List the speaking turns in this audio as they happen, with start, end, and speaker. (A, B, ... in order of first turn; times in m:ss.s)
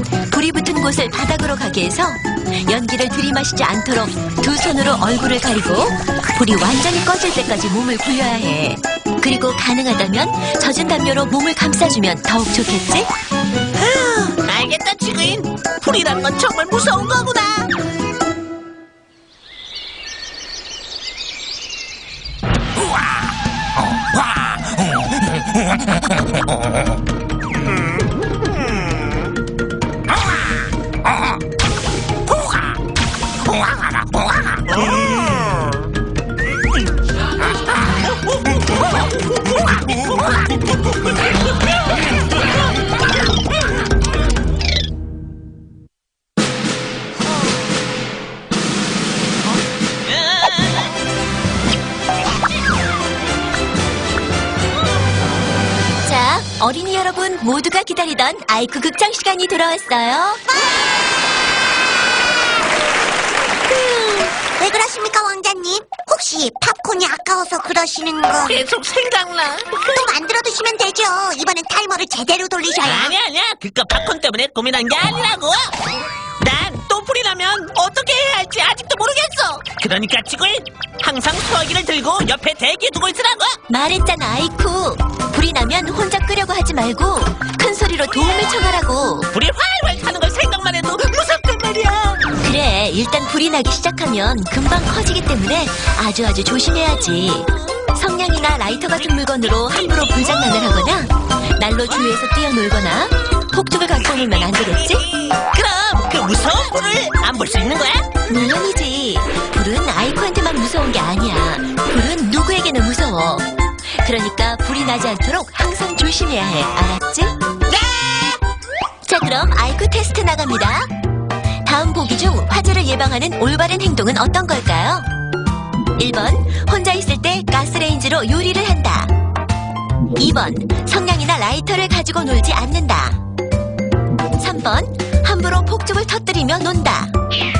0:00.3-0:13.1 A
0:13.7-0:17.7 B
0:50.0-0:50.9 B
0:56.0-1:00.4 A
1:04.3-1:08.6 C
1:08.4-1:09.8 B
1:09.8-1:13.2 C
1:12.8-1:15.8 B
1:16.4-1:23.6 B
1:23.7-1:29.3 A
1:29.3-1:32.3 B
1:32.4-1:45.0 A
1:39.9-1:40.7 B
1:44.1-1:48.2 B
1:48.3-1:57.4 A
1:59.0-2:00.9 A
2:01.6-2:05.0 A
2:06.0-2:09.1 A
2:10.1-2:13.2 A
2:14.4-2:17.1 A